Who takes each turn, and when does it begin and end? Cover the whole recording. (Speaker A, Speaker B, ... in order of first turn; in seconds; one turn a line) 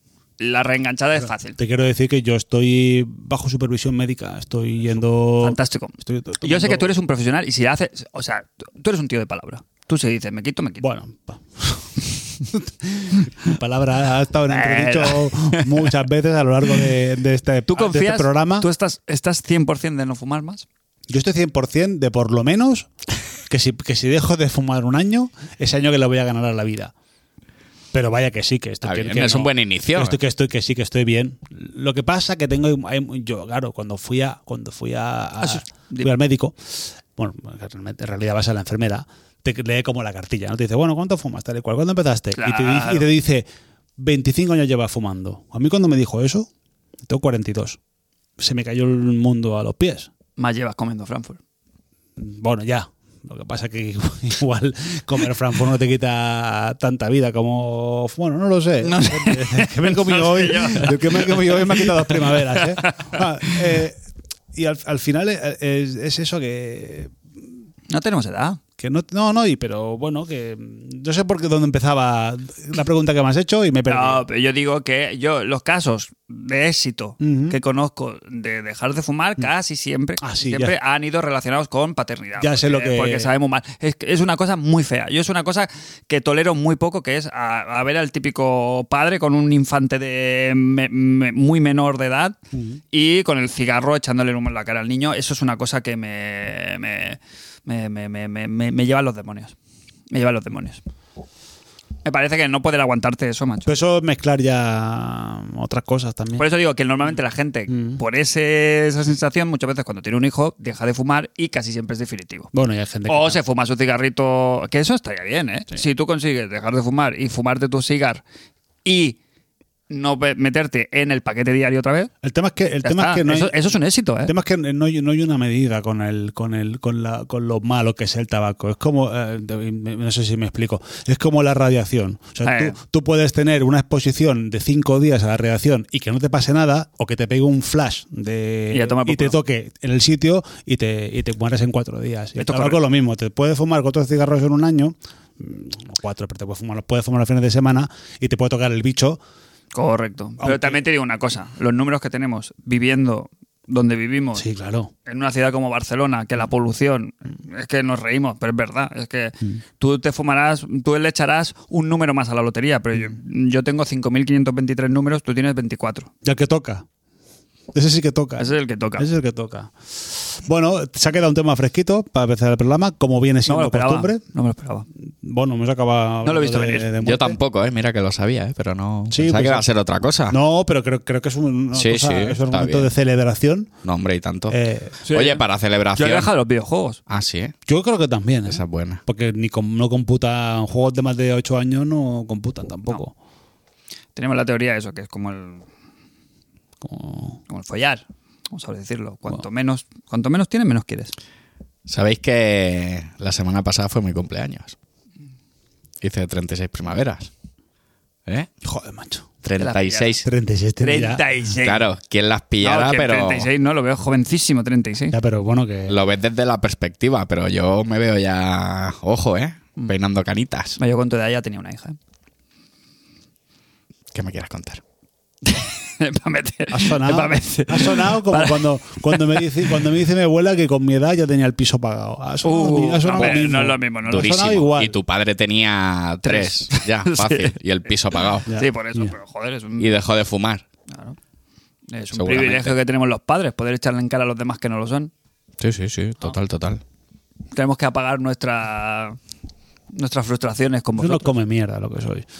Speaker A: 0.4-1.6
Speaker B: 1.6-6.9
Speaker A: 5.4-10.8
Speaker B: 10.8-18.7
Speaker A: 14.5-15.7
Speaker A: 17.7-20.6
Speaker B: 21.1-22.9
Speaker B: 23.5-26.9
Speaker B: 27.9-46.5
Speaker C: 28.8-30.2
Speaker A: 35.4-36.1
Speaker A: 42.3-43.1
Speaker B: 47.0-47.8
Speaker B: 48.4-50.1
Speaker A: 50.4-51.4
Speaker B: 52.2-64.0
Speaker A: 58.8-63.5
Speaker B: 64.5-67.2
Speaker A: 67.9-68.6
Speaker B: 68.8-74.2
Speaker A: 73.9-92.4
Speaker B: 77.2-77.6
Speaker B: 80.2-80.7
Speaker B: 82.4-83.3
Speaker B: 92.5-92.8
Speaker A: 92.9-99.5
Speaker A: 100.1-100.8
Speaker A: 102.0-103.7
Speaker B: 103.7-106.4
Speaker A: 106.4-112.5
Speaker B: 107.7-108.0
Speaker B: 112.5-113.4
Speaker A: 113.1-118.2
Speaker A: 118.8-119.2
Speaker A: 119.9-122.1
Speaker B: 122.2-123.7
Speaker A: 122.8-124.3
Speaker B: 124.2-149.2
Speaker A: 132.4-132.8
Speaker A: 138.7-139.4
Speaker A: 142.4-142.8
Speaker A: 149.7-154.4
Speaker B: 150.4-150.8
Speaker B: 154.3-154.9
Speaker A: 155.0-166.1
Speaker B: 166.2-166.8
Speaker B: 167.7-174.2
Speaker A: 168.4-169.1
Speaker A: 173.5-174.9
Speaker B: 175.2-177.4
Speaker A: 176.2-176.9
Speaker C: 177.0-180.4
Speaker B: 179.1-179.7
Speaker B: 180.3-183.7
Speaker C: 181.7-182.9
Speaker C: 183.8-184.6
Speaker B: 184.5-185.0
Speaker A: 185.0-185.4
Speaker C: 185.1-186.3
Speaker A: 185.9-187.0
Speaker C: 187.1-187.5
Speaker B: 187.7-193.1
Speaker C: 188.5-189.0
Speaker A: 194.2-195.7
Speaker B: 196.8-197.4
Speaker A: 197.5-201.1
Speaker C: 201.8-204.8
Speaker C: 206.0-207.3
Speaker B: 208.6-209.3
Speaker C: 209.4-210.3
Speaker A: 209.6-210.2
Speaker B: 210.2-211.2
Speaker A: 210.8-211.9
Speaker C: 211.6-213.5
Speaker A: 212.6-215.2
Speaker B: 215.1-216.0
Speaker C: 215.9-220.8
Speaker A: 220.8-222.0
Speaker C: 224.1-224.8
Speaker A: 225.4-229.5
Speaker B: 226.7-235.0
Speaker A: 232.4-234.4
Speaker C: 233.2-233.5
Speaker C: 234.1-238.5
Speaker A: 236.2-237.5
Speaker A: 238.1-239.9
Speaker B: 238.5-239.1
Speaker C: 239.8-240.6
Speaker A: 240.9-241.2
Speaker A: 241.9-245.1
Speaker C: 242.1-242.8
Speaker C: 245.6-246.8
Speaker A: 247.5-249.2
Speaker A: 249.9-251.3
Speaker B: 251.0-252.2